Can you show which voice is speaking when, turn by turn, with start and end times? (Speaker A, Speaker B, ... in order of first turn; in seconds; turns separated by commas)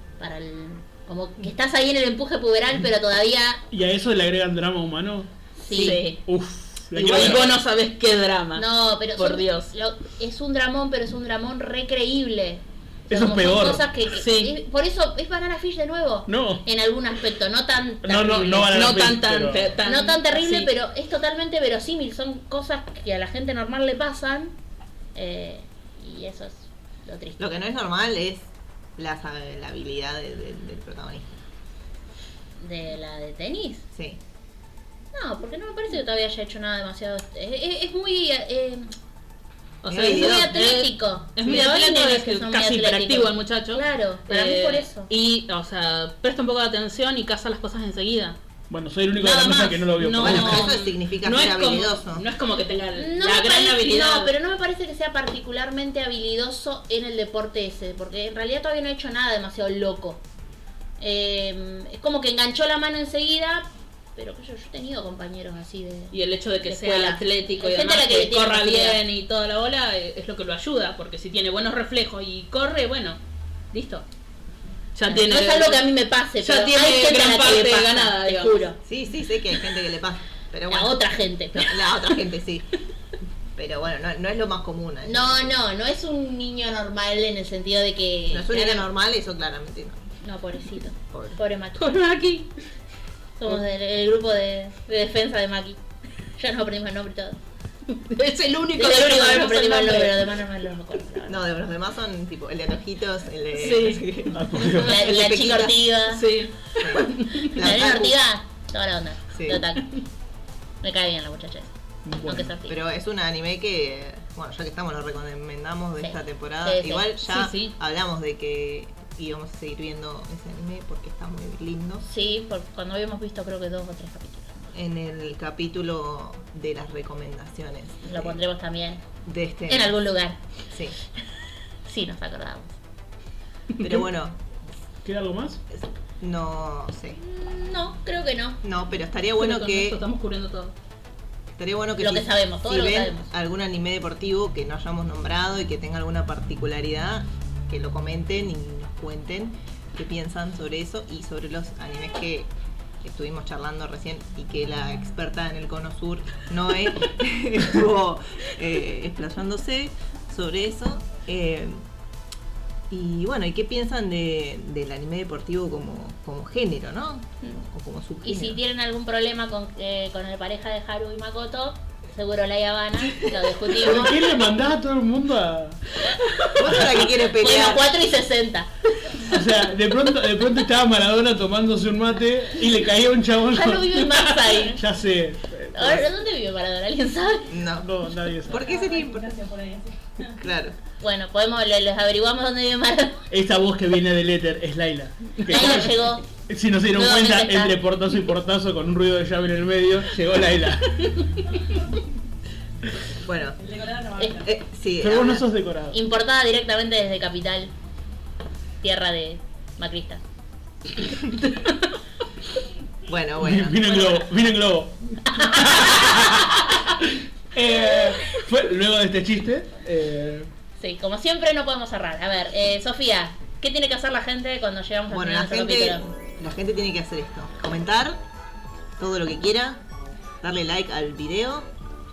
Speaker A: 0.2-3.6, Speaker B: 3.7-5.3, Speaker A: 5.6-6.2, Speaker C: 5.7-6.0, Speaker D: 5.7-6.2, Speaker B: 6.2-7.5, Speaker D: 6.9-9.7, Speaker A: 7.1-7.5, Speaker A: 8.6-19.1, Speaker B: 13.1-13.9, Speaker D: 14.1-14.6, Speaker B: 16.3-16.6, Speaker B: 18.0-19.8, Speaker D: 18.7-20.7, Speaker A: 19.8-24.5, Speaker A: 25.1-27.6, Speaker C: 27.4-31.4, Speaker A: 32.6-33.9, Speaker C: 33.9-34.2, Speaker A: 35.1-39.0, Speaker C: 39.9-40.6, Speaker D: 39.9-48.4, Speaker A: 39.9-45.1, Speaker B: 48.7-50.7, Speaker A: 49.2-50.5, Speaker D: 50.0-54.3, Speaker C: 50.2-52.3, Speaker A: 53.0-60.2, Speaker A: 61.0-69.0, Speaker D: 66.1-73.2, Speaker D: 73.7-74.1, Speaker D: 75.0-75.8, Speaker A: 75.1-78.8, Speaker D: 76.4-78.7, Speaker C: 78.8-82.7, Speaker A: 80.7-82.1, Speaker C: 83.6-85.5, Speaker A: 85.0-88.9, Speaker C: 88.3-90.0, Speaker A: 90.2-92.2, Speaker C: 91.1-91.4, Speaker D: 91.8-92.5, Speaker A: 93.4-95.8, Speaker A: 96.4-97.4, Speaker D: 97.9-100.3, Speaker A: 98.8-101.4, Speaker C: 101.3-105.9, Speaker D: 103.6-104.0, Speaker B: 104.3-105.1, Speaker A: 104.8-106.3, Speaker D: 106.1-107.5, Speaker C: 106.8-108.2, Speaker A: 107.5-110.0, Speaker C: 109.3-109.6, Speaker A: 110.8-112.8, Speaker B: 112.0-112.5, Speaker C: 112.6-122.1, Speaker A: 116.0-117.1, Speaker D: 117.2-117.8, Speaker A: 122.1-124.7, Speaker C: 124.7-128.4, Speaker A: 128.1-129.1, Speaker C: 129.2-129.9, Speaker A: 129.7-130.4, Speaker C: 130.7-130.9, Speaker A: 131.8-132.7, Speaker C: 133.8-134.4, Speaker B: 135.0-135.6, Speaker C: 135.7-137.2, Speaker A: 137.2-138.6, Speaker C: 138.6-140.1, Speaker D: 139.4-140.7, Speaker C: 141.6-152.5, Speaker A: 142.0-143.3, Speaker C: 153.0-161.8, Speaker C: 162.9-168.6, Speaker A: 168.2-174.3, Speaker C: 173.2-173.5, Speaker B: 173.7-175.8, Speaker A: 176.2-179.3, Speaker C: 176.6-177.9, Speaker B: 176.7-176.9, Speaker B: 179.2-186.1, Speaker A: 183.5-184.8, Speaker A: 185.7-187.5, Speaker C: 187.5-187.9, Speaker B: 187.8-188.7, Speaker C: 188.5-189.7, Speaker C: 190.2-190.8, Speaker A: 191.0-193.2, Speaker B: 193.3-201.4, Speaker A: 195.5-196.3, Speaker A: 196.9-197.8, Speaker C: 203.2-205.4, Speaker A: 204.2-204.4, Speaker B: 205.0-206.0, Speaker A: 205.9-207.7, Speaker A: 208.8-210.2, Speaker C: 213.1-214.2, Speaker B: 213.4-220.5, Speaker A: 215.4-216.7, Speaker A: 220.8-226.1, Speaker C: 225.1-228.2, Speaker C: 229.0-229.8, Speaker C: 230.4-231.7